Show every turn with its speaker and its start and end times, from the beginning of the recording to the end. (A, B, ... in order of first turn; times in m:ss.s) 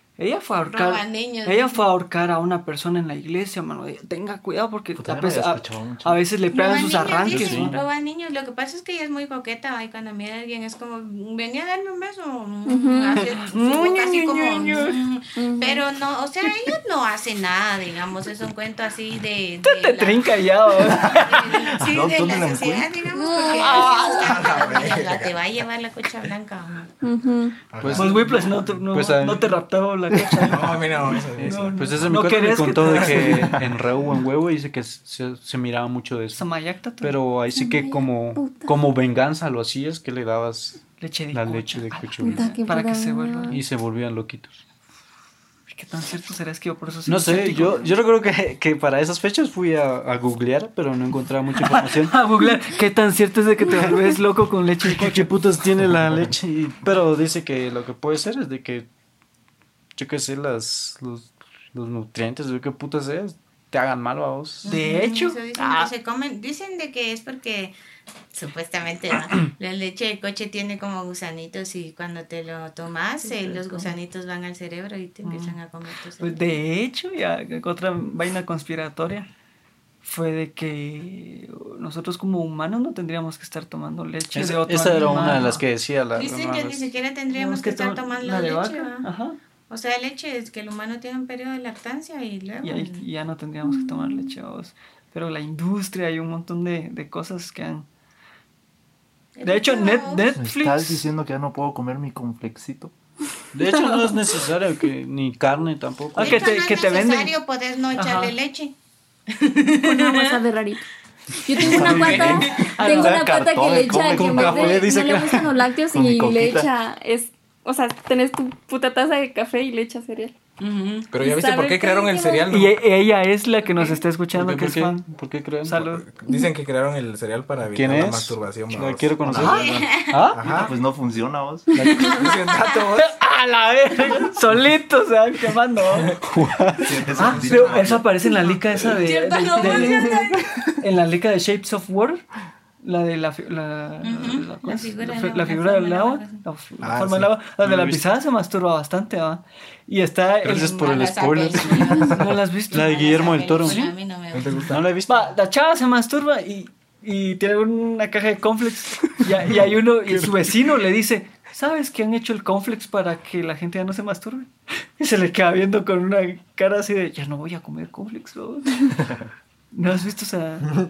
0:00.2-0:07.7 A
0:00.7-0:01.8 B
0:05.0-0:06.2 C
0:06.5-0:26.9 B
0:07.3-0:07.8 D
0:12.6-0:13.2 E
0:13.1-0:15.0 A
0:15.4-0:15.8 E
0:19.6-0:21.7 A
0:21.1-0:22.9 C
0:23.1-0:24.0 E
0:23.6-0:24.2 A
0:23.9-0:25.4 F
0:27.0-0:27.5 E
0:27.7-0:28.6 F
0:27.8-0:29.5 D
0:27.9-0:33.7 A
0:30.4-0:32.2 F
0:31.3-0:36.4 D
0:32.8-0:33.6 F
0:36.3-0:37.2 A
0:37.0-0:42.5 D
0:37.5-0:38.8 E
0:41.0-0:43.6 A
0:42.2-0:43.6 E
0:43.5-0:44.6 D
0:45.7-0:47.9 A
0:47.0-0:52.2 D
0:51.6-0:55.3 A
0:54.9-0:58.9 D
1:00.0-1:04.7 D
1:04.6-1:07.7 B
1:04.6-1:05.9 A
1:08.3-1:16.4 B
1:13.2-1:13.9 A
1:15.2-1:15.6 A
1:16.2-1:19.3 A
1:20.0-1:25.6 A
1:24.3-1:26.9 D
1:26.1-1:29.1 B
1:27.3-1:29.4 A
1:29.7-1:33.0 B
1:32.6-1:37.8 A
1:33.6-1:34.3 E
1:39.4-1:40.3 B
1:39.4-1:41.1 A
1:40.4-1:42.9 C
1:43.5-1:46.5 D
1:43.7-1:44.1 E
1:46.1-1:47.3 A
1:46.2-1:48.7 B
1:47.9-1:48.4 A
1:49.3-1:50.4 B
1:49.8-1:50.8 E
1:51.3-2:00.3 E
1:51.6-1:52.5 D
1:51.6-1:54.9 C
1:52.7-1:53.2 A
1:53.9-1:55.5 D
1:55.9-1:56.7 C
2:00.6-2:01.1 B
2:01.1-2:02.8 F
2:01.2-2:02.5 E
2:02.5-2:05.1 A
2:04.3-2:05.8 D
2:05.6-2:06.0 A
2:05.8-2:09.6 F
2:07.7-2:10.4 D
2:09.2-2:09.7 C
2:09.4-2:10.3 B
2:09.4-2:10.4 A
2:10.3-2:10.7 F
2:10.4-2:11.7 C
2:11.7-2:12.4 D
2:11.8-2:12.7 B
2:12.1-2:16.2 A
2:16.2-2:17.4 D
2:16.8-2:18.0 C
2:17.1-2:18.0 F
2:17.2-2:22.2 A
2:18.8-2:20.4 B
2:22.8-2:31.4 A
2:24.0-2:26.4 B
2:26.8-2:27.3 F
2:27.6-2:28.0 D
2:30.4-2:33.8 D
2:30.5-2:34.7 B
2:32.0-2:33.9 A
2:34.3-2:34.8 F
2:34.7-2:35.3 D
2:35.0-2:49.1 A
2:49.7-2:50.7 A